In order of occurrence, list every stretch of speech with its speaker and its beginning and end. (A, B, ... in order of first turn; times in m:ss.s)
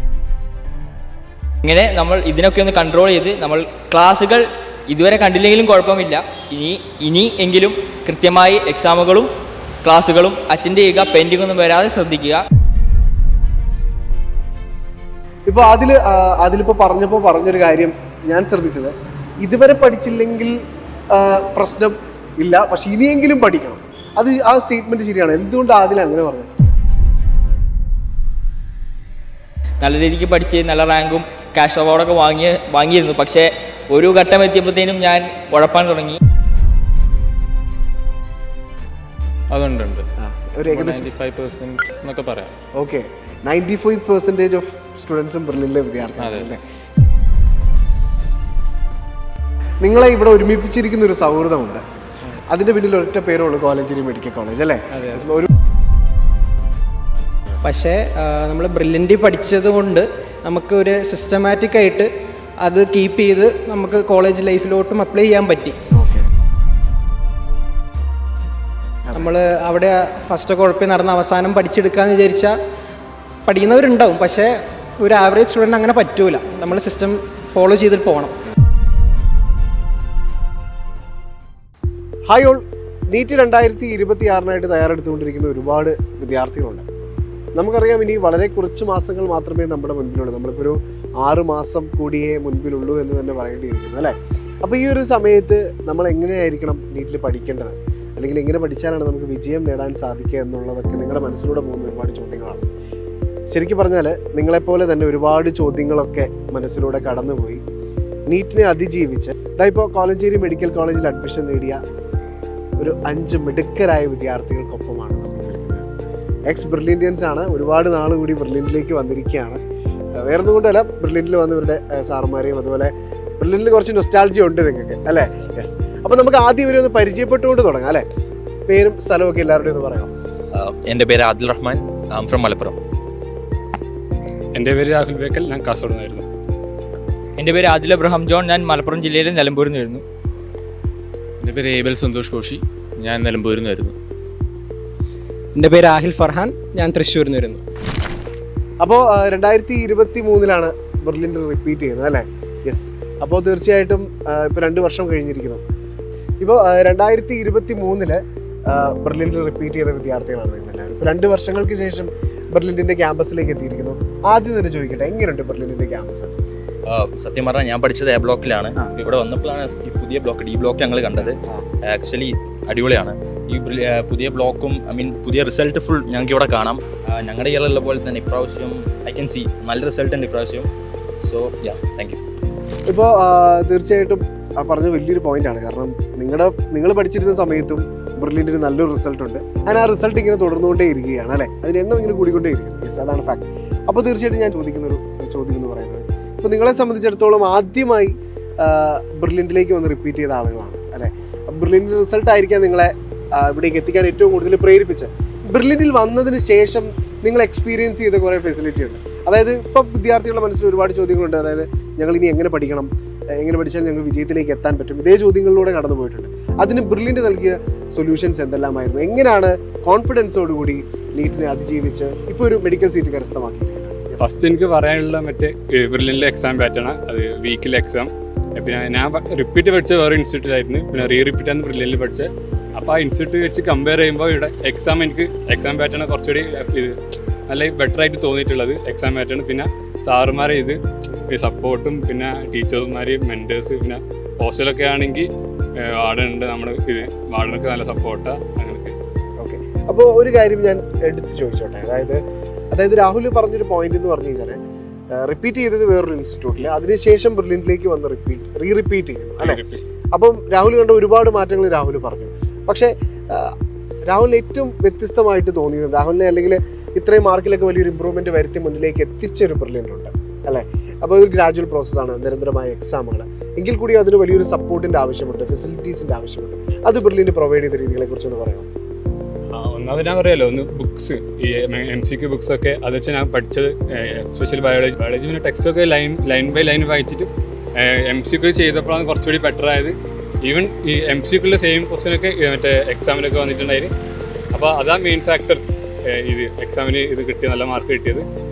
0:01.6-0:09.3 A
0:09.8-0:12.4 A
0:15.5-0:20.6 B
0:21.1-0:26.5 B
0:29.8-0:36.2 A
0:39.5-0:40.0 C
0:40.2-0:41.1 B
0:40.7-0:42.5 C
0:42.8-0:46.6 B
0:46.2-0:46.5 C
0:49.8-0:51.8 B
0:52.5-0:55.5 B
0:57.6-1:02.1 D
1:02.6-1:05.8 D
1:05.9-1:06.2 B
1:09.1-1:12.5 D
1:13.4-1:18.3 D
1:22.3-1:26.8 B
1:27.6-1:42.6 B
1:43.5-1:47.6 B
1:48.3-1:51.8 B
1:52.8-1:55.9 B
1:56.5-1:59.6 B
2:00.2-2:08.0 B
2:08.7-2:10.1 B
2:10.5-2:12.8 E
2:14.5-2:16.3 F
2:17.4-2:20.0 A
2:21.4-2:23.9 C
2:25.6-2:27.6 D
2:28.8-2:35.6 B
2:36.4-2:46.4 B
2:46.8-3:02.2 E
3:02.9-3:44.2 B
3:44.2-3:57.0 F
3:57.5-4:08.9 F
4:09.4-4:14.6 B
4:15.1-4:19.6 B
4:19.4-4:19.8 F
4:20.1-4:23.5 B
4:24.0-4:38.7 B
4:39.5-4:53.9 F
4:54.5-4:58.2 F